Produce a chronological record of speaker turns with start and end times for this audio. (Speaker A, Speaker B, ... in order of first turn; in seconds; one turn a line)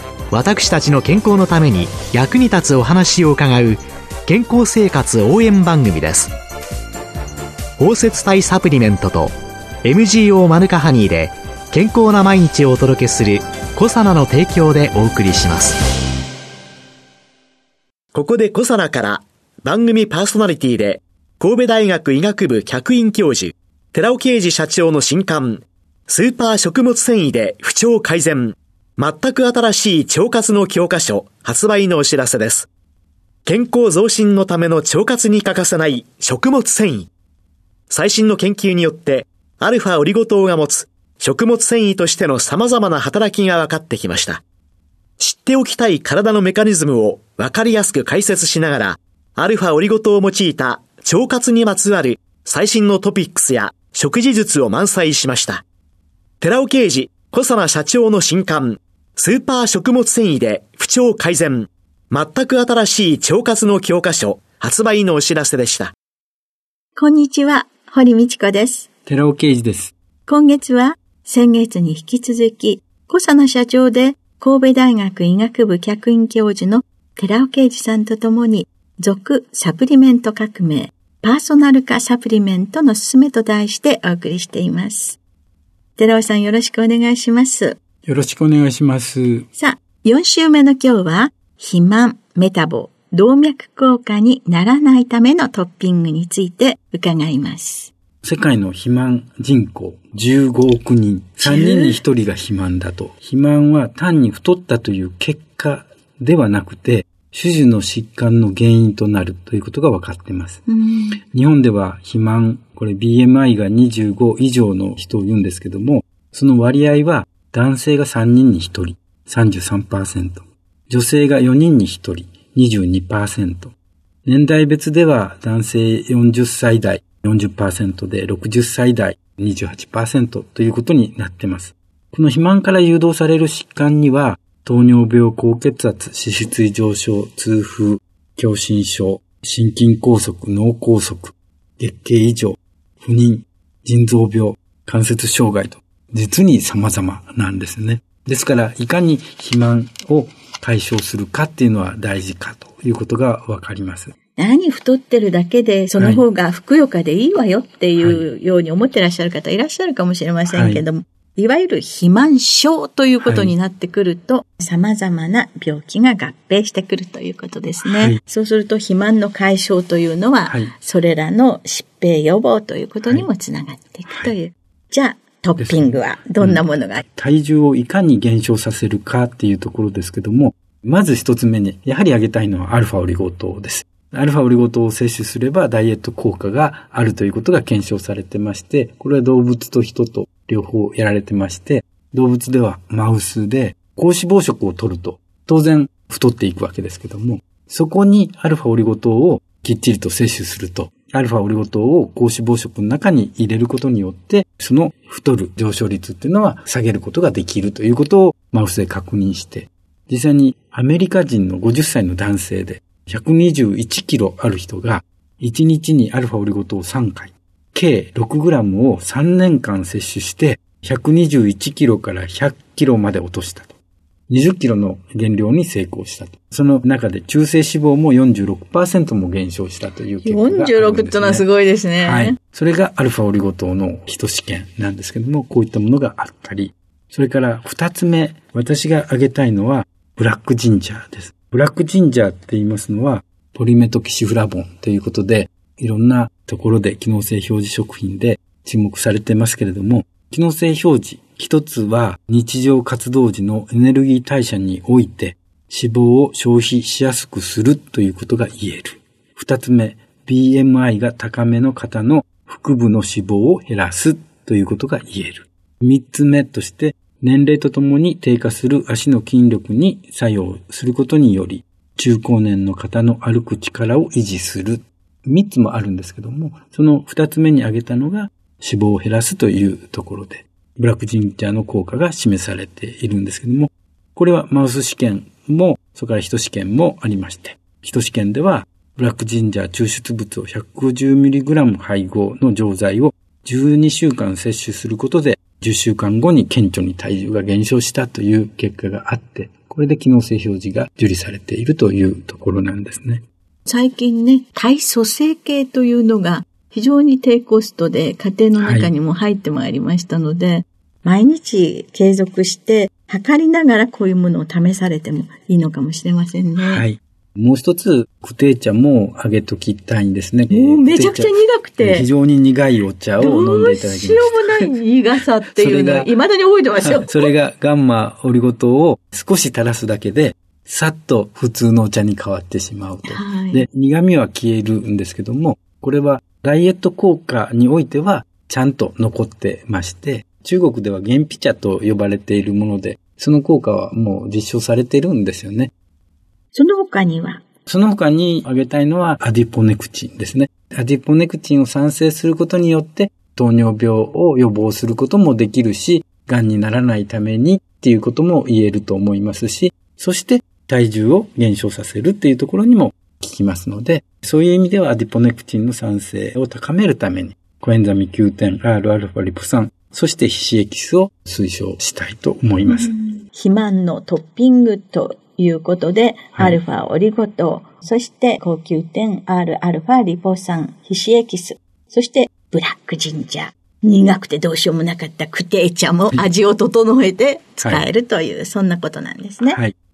Speaker A: 0.3-6.3
Speaker A: 7.8-9.3
Speaker A: 9.8-15.8
Speaker A: 18.1-32.7
Speaker A: 33.5-37.1
Speaker A: 37.9-44.4
Speaker A: 45.2-55.6
Speaker A: 56.4-65.9
Speaker B: 67.0-68.9
Speaker C: 69.1-69.9
Speaker B: 70.3-85.2
Speaker B: 86.0-87.8
Speaker C: 88.1-89.5
Speaker B: 89.5-97.9
Speaker C: 98.2-110.6
Speaker B: 101.4-102.0
Speaker B: 110.7-111.2
Speaker C: 111.3-123.8
Speaker C: 124.3-154.1
Speaker B: 154.4-177.1
Speaker C: 155.9-156.3
Speaker C: 158.0-158.3
Speaker C: 160.5-160.8
Speaker C: 163.2-163.5
Speaker C: 167.8-168.2
Speaker C: 170.5-170.7
Speaker C: 174.1-174.3
Speaker C: 175.6-223.8
Speaker C: 224.3-231.5
Speaker B: 230.2-232.4
Speaker C: 232.0-303.2
Speaker B: 303.7-316.9
Speaker C: 308.6-308.9
Speaker C: 316.6-324.7
Speaker B: 320.5-322.1
Speaker B: 323.2-327.3
Speaker C: 325.6-326.1
Speaker C: 326.8-345.7
Speaker B: 333.1-333.6
Speaker B: 346.5-347.4
Speaker C: 347.7-372.9
Speaker B: 372.7-389.6
Speaker C: 387.6-387.9
Speaker C: 389.4-389.7